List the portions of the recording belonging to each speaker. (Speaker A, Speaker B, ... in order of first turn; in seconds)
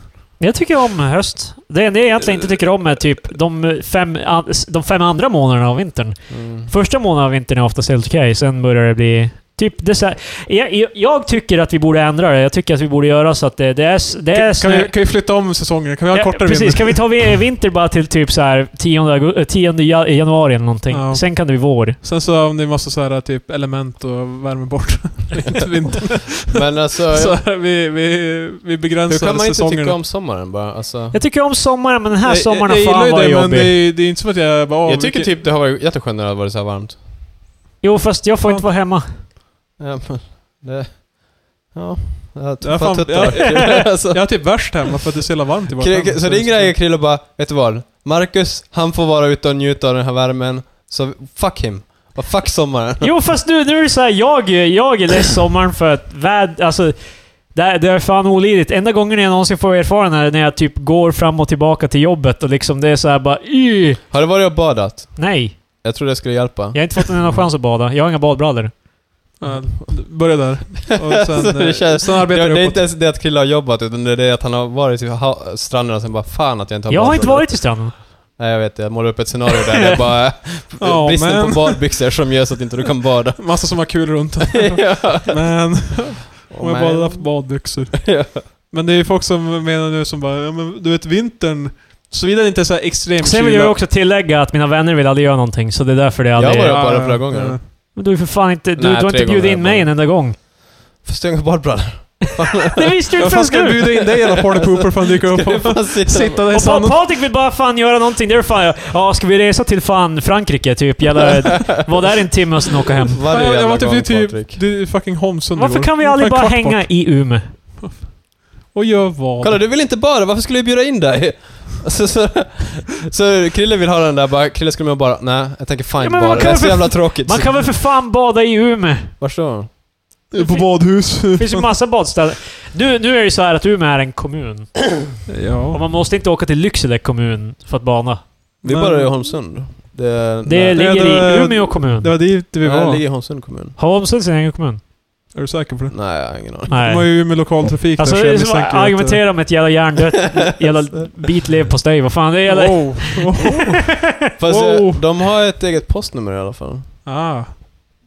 Speaker A: 0.4-15.1, 16.1-22.0, 31.1-33.8, 37.8-39.2, 53.0-64.1, 65.2-65.8, 66.7-68.8, 76.9-78.0, 93.2-97.1, 97.9-100.4, 102.7-104.0, 106.5-113.2, 115.6-117.5, 126.0-129.1, 130.3-135.0, 135.7-138.4, 140.5-142.2, 143.8-144.8, 146.7-153.7
Speaker B: 6.3-6.7, 26.5-27.4, 29.1-31.2, 34.9-37.0, 39.8-44.8, 45.8-53.1, 64.1-67.5, 69.4-70.3, 71.1-84.0, 84.7-85.5, 86.5-88.5, 96.4-98.0, 98.8-100.5, 101.0-102.9, 104.5-106.5, 113.1-114.6, 119.4-127.6, 129.2-129.7, 138.6-140.8, 142.6-143.8, 145.9-146.7, 154.4-156.9
Speaker C: 14.3-17.2, 20.9-30.0, 32.2-35.4, 42.6-46.8, 69.4-72.8, 80.8-81.8, 83.4-93.8, 96.7-97.6, 103.2-107.0, 113.3-119.6, 130.3-131.7, 135.3-135.8, 138.6-139.1, 140.7-143.0, 145.3-149.4, 152.4-155.1, 157.1-157.9